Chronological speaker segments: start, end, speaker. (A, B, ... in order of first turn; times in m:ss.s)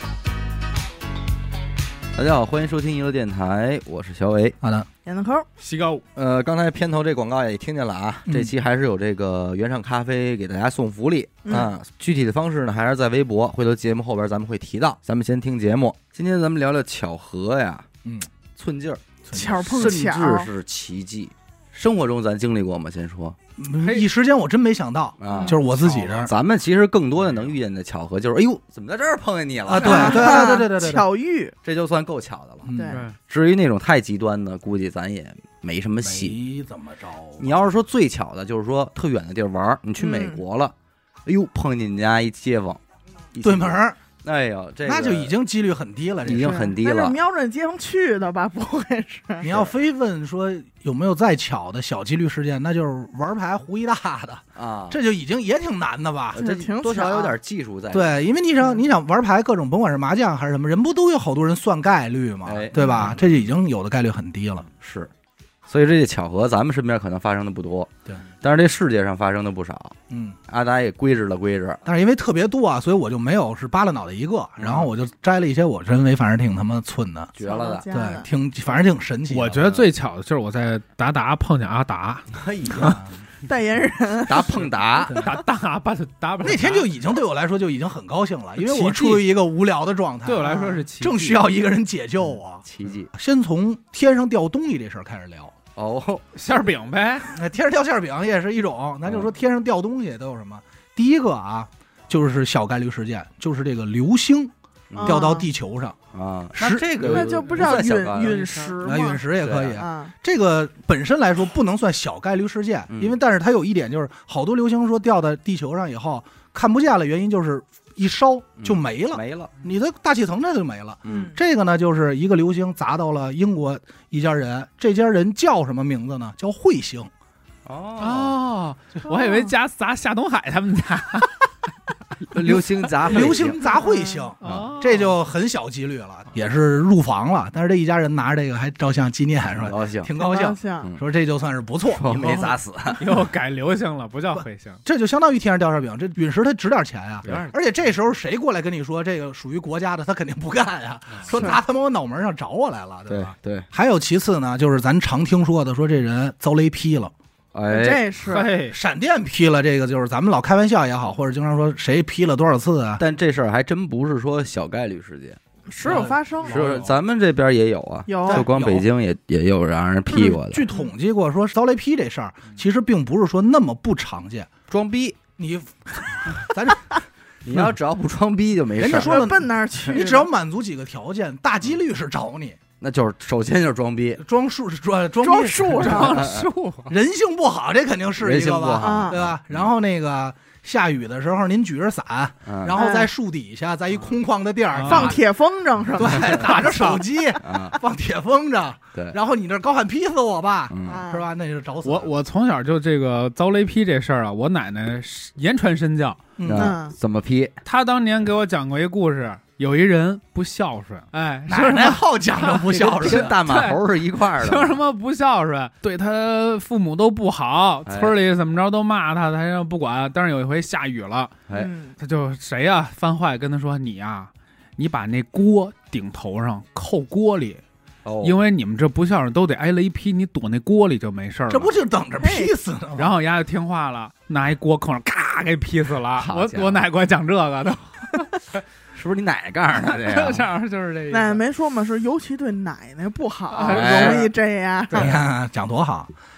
0:02.2-0:04.6 A
0:04.6-0:04.9 B
0:05.0-0:05.5 C
0:05.6-0:06.0 D
0:06.2-0:17.9 A
0:08.3-0:08.5 B
0:11.4-0:11.7 C
0:18.6-0:19.0 A
0:19.2-0:20.0 B
0:19.3-0:20.5 C
0:19.7-0:23.4 A
0:23.6-0:26.3 B
0:23.8-0:24.1 D
0:25.2-0:30.5 A
0:25.3-0:25.6 C
0:29.7-0:31.1 B
0:29.8-0:31.6 C
0:31.6-0:32.7 A
0:32.6-0:33.0 B
0:32.7-0:33.0 C
0:32.9-0:33.2 D
0:33.3-0:36.4 A
0:36.0-0:37.5 B
0:37.4-0:40.7 A
0:40.0-0:40.4 C
0:41.3-0:42.8 A
0:43.3-0:45.3 A
0:43.4-0:44.0 B
0:44.8-0:46.7 B
0:46.3-0:47.2 A
0:46.4-0:49.5 C
0:49.4-0:56.4 B
0:49.4-0:49.7 A
0:54.6-0:55.0 A
0:56.3-0:58.2 A
0:56.4-0:57.4 C
0:57.9-1:04.7 B
1:02.5-1:03.2 A
1:02.8-1:03.1 C
1:04.8-1:05.1 A
1:05.7-1:10.0 A
1:10.1-1:10.4 B
1:10.5-1:11.8 A
1:11.8-1:17.4 B
1:14.6-1:14.9 A
1:17.4-1:17.9 A
1:17.4-1:18.3 C
1:17.9-1:19.8 B
1:19.3-1:22.3 D
1:22.3-1:23.0 A
1:22.7-1:23.1 B
1:23.4-1:25.2 C
1:24.2-1:25.3 A
1:25.1-1:26.9 D
1:26.4-1:35.5 B
1:28.6-1:29.3 D
1:30.2-1:31.4 D
1:30.4-1:30.8 C
1:32.6-1:33.1 A
1:35.8-1:36.2 A
1:36.3-1:37.4 D
1:37.3-1:44.5 B
1:44.9-1:45.2 A
1:45.0-1:45.5 C
1:45.0-1:46.0 B
1:46.1-1:48.4 A
1:46.5-1:46.9 B
1:47.0-1:48.8 D
1:47.0-1:49.2 C
1:48.8-2:07.1 B
1:49.4-1:49.8 A
1:49.7-1:50.1 C
1:52.9-1:53.2 A
1:58.6-1:59.5 A
2:01.0-2:01.3 A
2:01.1-2:01.4 C
2:07.7-2:08.4 A
2:08.0-2:11.5 D
2:09.1-2:09.5 C
2:12.3-2:13.6 A
2:12.3-2:12.8 D
2:13.1-2:22.5 B
2:13.6-2:14.3 C
2:14.4-2:15.2 D
2:19.6-2:20.1 A
2:20.2-2:20.9 C
2:21.9-2:23.0 A
2:23.0-2:24.8 D
2:24.3-2:37.1 B
2:27.2-2:27.6 A
2:31.2-2:31.6 A
2:31.3-2:31.6 C
2:33.1-2:33.7 A
2:37.5-2:38.0 A
2:37.7-2:38.5 C
2:38.2-2:38.8 D
2:38.7-2:43.0 B
2:43.0-2:45.4 A
2:45.7-2:46.6 C
2:45.8-2:46.2 D
2:45.9-2:46.9 B
2:46.5-2:50.7 A
2:48.1-2:48.5 C
2:48.3-2:48.9 B
2:50.2-2:50.9 C
2:50.3-2:54.5 B
2:54.7-2:55.2 A
2:55.4-2:57.7 B
2:57.4-2:59.3 A
2:58.8-3:02.6 B
2:58.9-3:00.3 C
3:02.8-3:04.2 A
3:04.2-3:06.2 B
3:05.2-3:06.2 C
3:05.7-3:06.9 D
3:06.2-3:06.5 A
3:06.9-3:15.3 B
3:08.2-3:09.6 A
3:08.8-3:09.2 C
3:12.5-3:12.7 A
3:12.7-3:13.1 C
3:14.7-3:15.2 D
3:14.8-3:16.9 C
3:16.0-3:22.1 B
3:16.5-3:17.0 D
3:17.4-3:17.8 A
3:20.7-3:21.0 A
3:20.8-3:21.3 C
3:21.8-3:26.3 D
3:26.4-3:26.8 B
3:26.4-3:27.6 A
3:26.5-3:27.0 C
3:27.6-3:41.4 D
3:31.5-3:33.4 B
3:32.7-3:34.8 A
3:37.9-3:38.2 A
3:41.5-3:42.0 C
3:42.0-3:47.6 D
3:48.0-3:48.4 A
3:48.2-3:51.7 D
3:51.5-3:53.2 B
3:52.2-3:52.5 C
3:53.0-3:58.4 D
3:56.2-3:56.8 A
3:58.9-4:00.5 A
3:59.8-4:01.4 D
4:01.1-4:05.2 C
4:03.5-4:04.3 D
4:03.6-4:04.3 A
4:04.9-4:06.1 B